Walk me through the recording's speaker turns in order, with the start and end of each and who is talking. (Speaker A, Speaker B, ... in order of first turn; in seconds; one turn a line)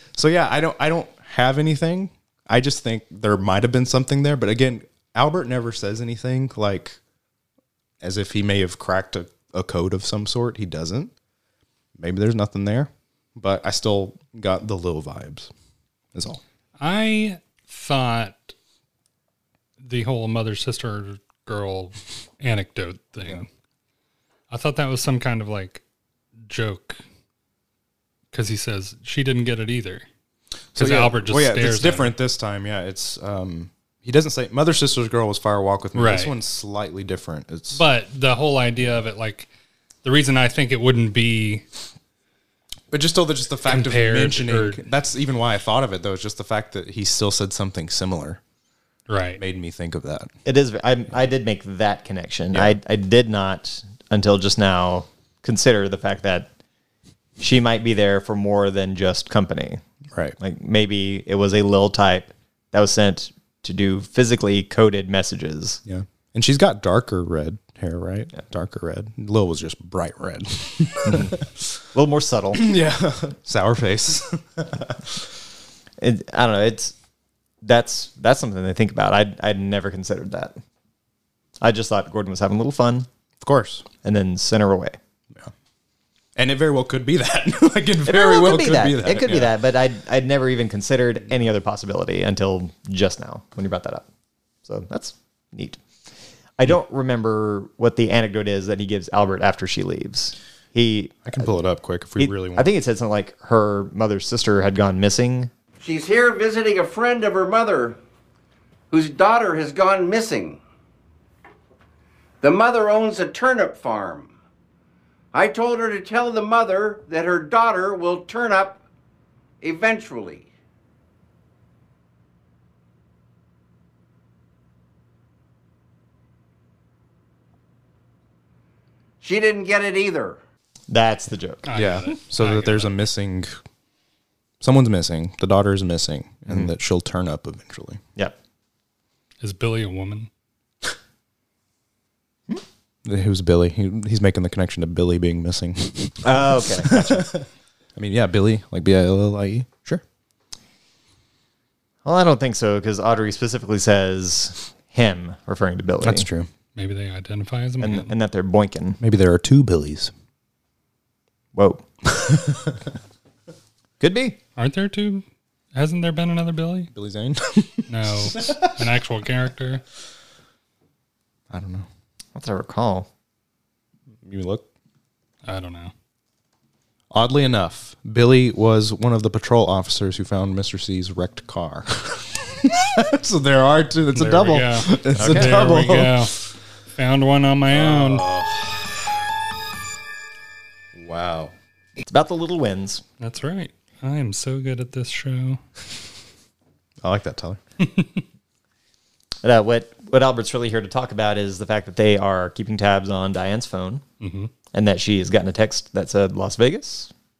Speaker A: 0.1-7.0
Speaker A: 8.0-11.1
Speaker A: 12.0-15.5
Speaker A: 16.1-16.4
Speaker B: 16.8-18.5
Speaker B: 19.8-23.5
Speaker B: 24.5-25.8
Speaker B: 26.5-27.0
Speaker B: 28.3-30.1
Speaker B: 30.7-32.1
Speaker A: 30.8-37.8
Speaker B: 35.9-36.3
Speaker B: 37.7-39.5
Speaker B: 40.0-41.6
Speaker A: 42.9-48.4
Speaker B: 43.6-44.8
Speaker B: 49.1-49.4
Speaker A: 49.4-50.3
Speaker C: 50.4-56.5
Speaker C: 57.4-59.8
Speaker C: 60.4-65.8
Speaker A: 65.8-71.7
Speaker C: 71.0-71.4
Speaker C: 71.9-72.6
Speaker A: 72.5-75.2
Speaker C: 76.0-76.9
Speaker C: 77.6-80.6
Speaker C: 81.6-83.1
Speaker A: 83.4-83.8
Speaker C: 84.0-85.0
Speaker A: 86.3-89.5
Speaker C: 88.0-94.0
Speaker C: 94.6-95.8
Speaker C: 96.6-101.5
Speaker A: 101.2-102.7
Speaker C: 102.2-105.5
Speaker D: 105.8-108.0
Speaker D: 108.9-110.6
Speaker D: 112.4-114.3
Speaker D: 115.3-118.8
Speaker D: 119.6-120.5
Speaker D: 129.2-130.4
Speaker C: 130.9-131.7
Speaker B: 131.7-133.0
Speaker A: 131.7-133.6
Speaker A: 134.6-138.0
Speaker B: 139.4-140.3
Speaker A: 143.0-150.0
Speaker C: 146.2-147.3
Speaker C: 152.0-156.3
Speaker A: 156.0-156.5
Speaker B: 156.7-158.1
Speaker C: 157.8-159.0
Speaker A: 159.0-160.1
Speaker C: 161.5-161.8
Speaker A: 162.2-162.7
Speaker C: 164.0-164.4
Speaker B: 164.6-166.9
Speaker A: 166.9-168.8
Speaker B: 167.9-169.8
Speaker A: 171.5-171.9
Speaker C: 172.3-173.1
Speaker A: 174.2-174.7
Speaker B: 175.4-175.9
Speaker A: 177.1-186.5
Speaker B: 184.1-186.4
Speaker C: 185.2-185.7
Speaker B: 186.9-188.3
Speaker A: 187.7-189.0
Speaker A: 190.9-191.5
Speaker C: 192.0-193.0
Speaker B: 193.2-195.6
Speaker A: 197.0-197.6
Speaker B: 197.8-198.2
Speaker C: 199.4-204.0
Speaker B: 204.2-204.5
Speaker C: 204.7-207.1